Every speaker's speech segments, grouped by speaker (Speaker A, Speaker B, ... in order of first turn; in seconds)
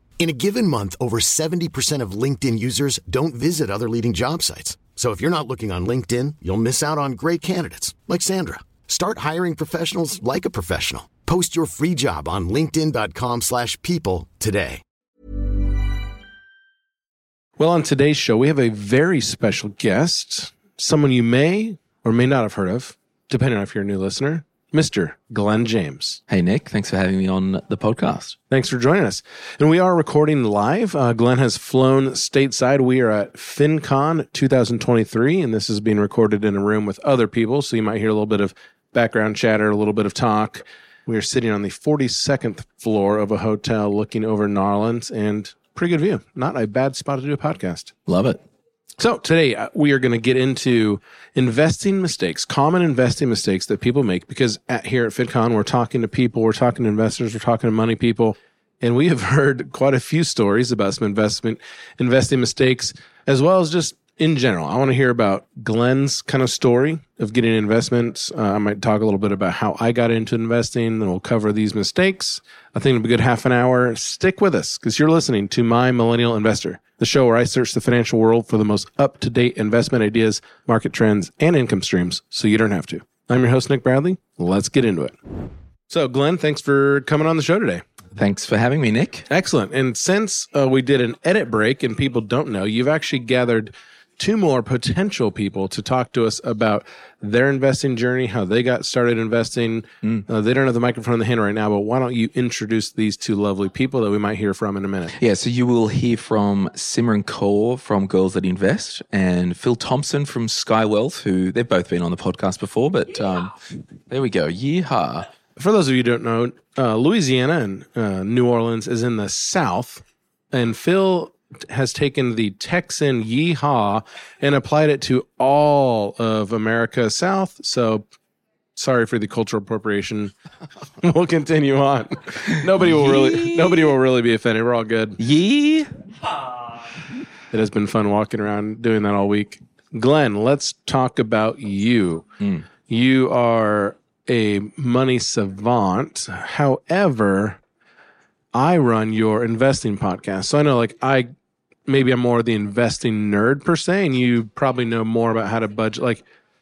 Speaker A: 0.2-14.8
Speaker B: 17.6-26.2, 28.5-47.9, 49.0-85.1, 85.9-87.8, 89.3-105.2, 115.6-128.1, 128.8-130.3, 131.0-135.2, 137.5-142.2, 142.9-147.6, 148.5-151.3, 151.9-156.2
Speaker C: 26.3-28.4, 48.1-48.4, 88.1-89.2, 105.2-113.5, 114.1-115.3, 132.8-133.9, 135.2-135.9, 142.4-142.7